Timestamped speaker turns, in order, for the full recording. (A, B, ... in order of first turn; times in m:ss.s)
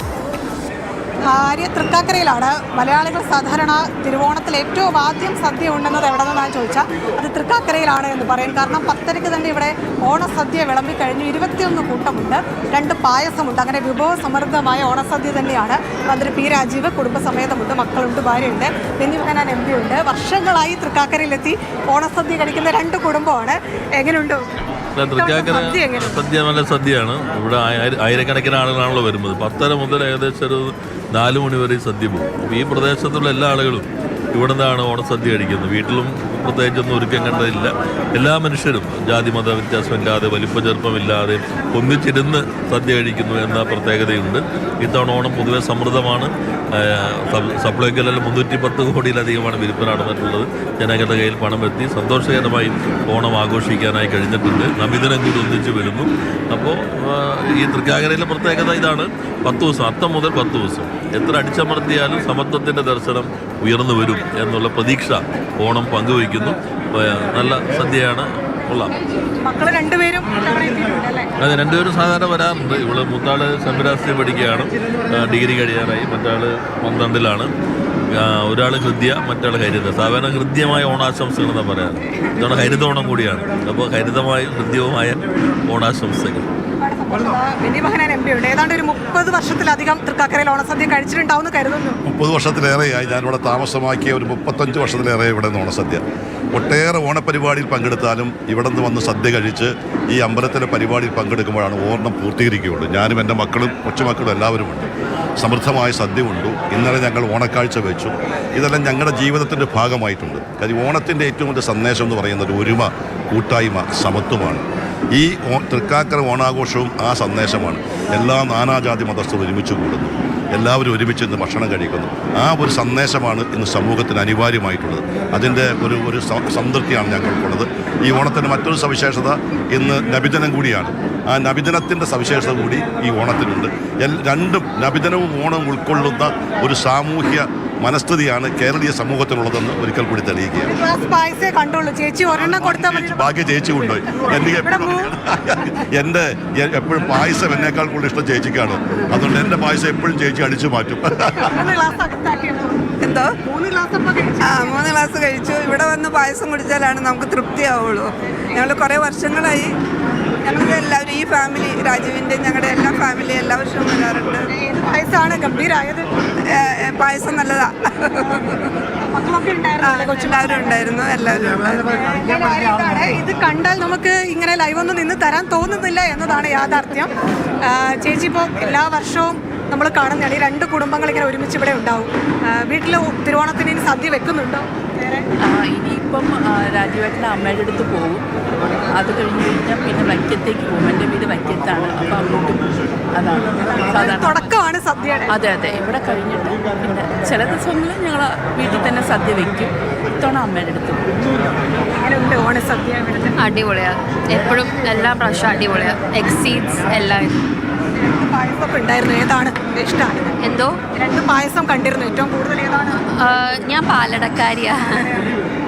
0:01.2-0:24.5 A
0:25.0-1:08.9 B
0:25.2-0:26.2 A
1:09.4-1:11.3 A
1:11.4-1:17.5 B
1:18.1-1:26.5 B
1:26.8-1:32.0 A
1:32.1-1:44.9 C
1:45.4-2:20.7 C
2:20.7-2:23.3 A
2:22.4-2:31.6 C
2:24.4-2:25.1 A
2:31.4-2:34.8 A
2:33.0-2:33.3 D
2:34.4-2:39.7 D
2:40.4-2:44.5 D
2:44.5-2:46.2 A
2:46.5-2:48.6 D
2:49.1-2:51.1 A
2:49.8-2:51.9 D
2:51.9-3:05.3 A
3:05.4-3:08.2 E
3:08.9-3:12.6 E
3:13.2-3:14.5 E
3:13.8-3:15.3 A
3:15.3-3:21.1 E
3:21.9-3:23.4 A
3:23.4-3:27.4 F
3:28.0-3:30.4 A
3:30.4-3:30.8 F
3:30.9-3:33.0 A
3:33.1-3:35.2 F